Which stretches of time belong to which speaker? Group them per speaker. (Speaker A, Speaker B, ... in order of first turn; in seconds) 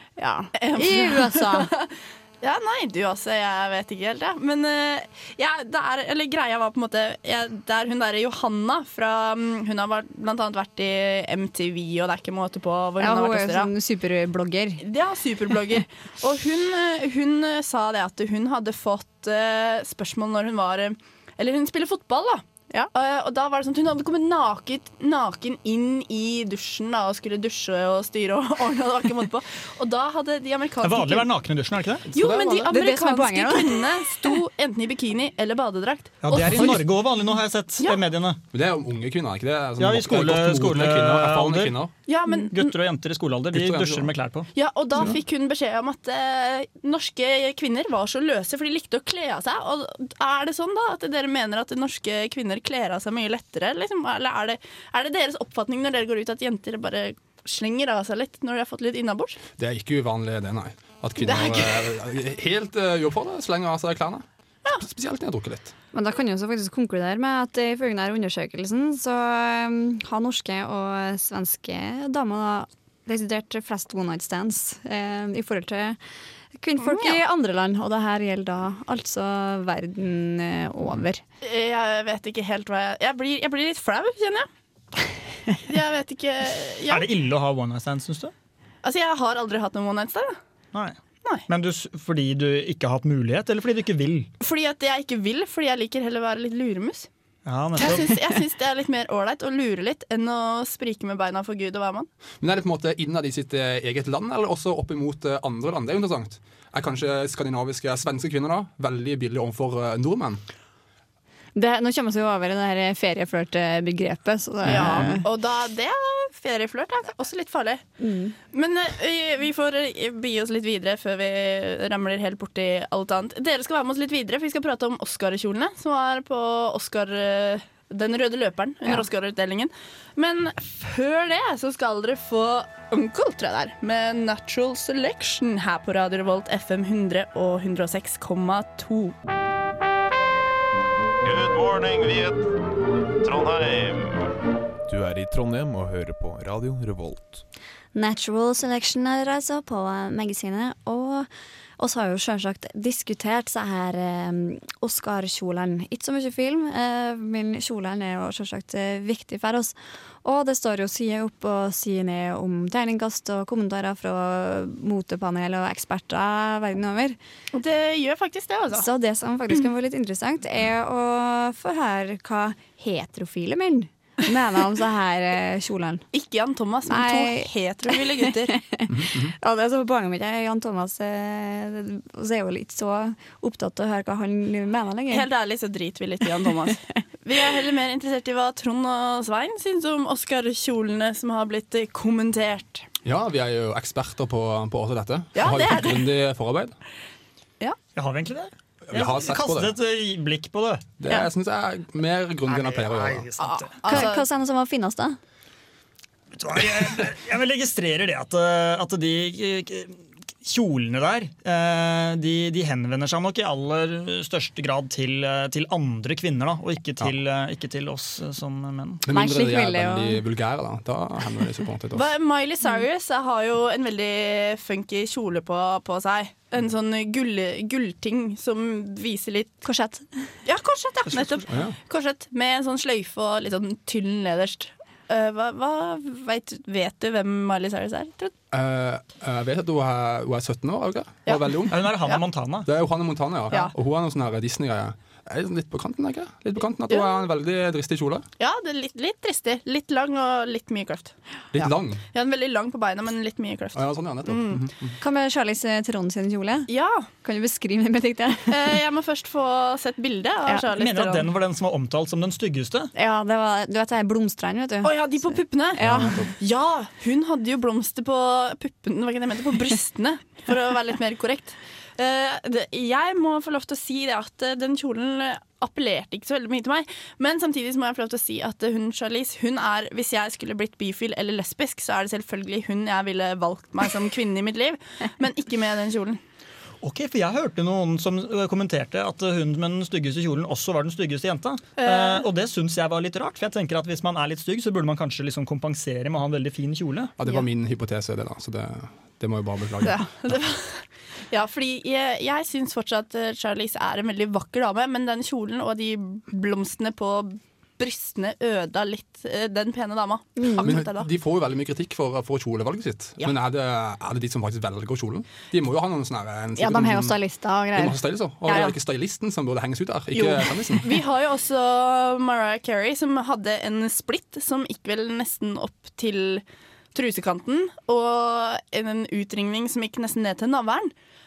Speaker A: 0.2-1.7, 13.0-14.8, 32.1-34.4, 65.9-76.0, 76.5-81.2, 111.5-115.3, 118.0-118.4, 147.9-167.2, 168.7-176.0, 176.9-185.3, 203.9-205.2, 219.1-220.2, 229.6-230.3, 255.0-256.7, 257.2-258.8, 262.9-266.2, 310.4-310.7, 316.6-318.7
Speaker B: 0.6-13.7, 14.8-31.3, 32.1-36.8, 42.1-42.7, 44.5-59.4, 61.2-61.9, 76.8-77.2, 81.4-84.5, 85.6-87.0, 88.8-90.4, 94.4-97.1, 97.8-102.1, 114.6-117.8, 118.5-139.1, 167.5-168.9, 176.1-178.6, 185.1-192.9, 195.3-196.1, 203.4-204.2, 221.9-229.6, 230.4-238.3, 246.9-247.1, 248.4-251.1, 252.1-254.6, 256.7-257.1, 258.5-261.3, 264.8-286.2, 291.8-292.2, 299.8-311.1, 318.5-318.7, 320.1-330.9
Speaker C: 30.8-32.0, 36.2-38.4, 39.8-41.8, 42.5-44.5, 86.9-88.3, 91.5-94.3, 97.5-98.4, 197.9-200.9, 202.5-203.8, 206.3-219.0, 231.1-231.4, 241.7-242.7, 260.7-262.9, 286.8-297.1
Speaker D: 32.1-32.6, 38.5-41.9, 43.5-44.1, 59.6-65.7, 102.4-110.4, 114.7-115.1, 178.9-179.3, 193.0-196.8, 198.9-199.7, 201.0-203.3, 219.0-222.1, 231.5-231.7, 238.5-242.0, 242.6-248.3, 251.5-252.0, 253.8-254.9, 265.8-266.3, 297.2-300.2, 310.6-317.1, 317.7-320.9
Speaker E: 141.2-142.4, 143.2-144.2
Speaker F: 144.9-147.4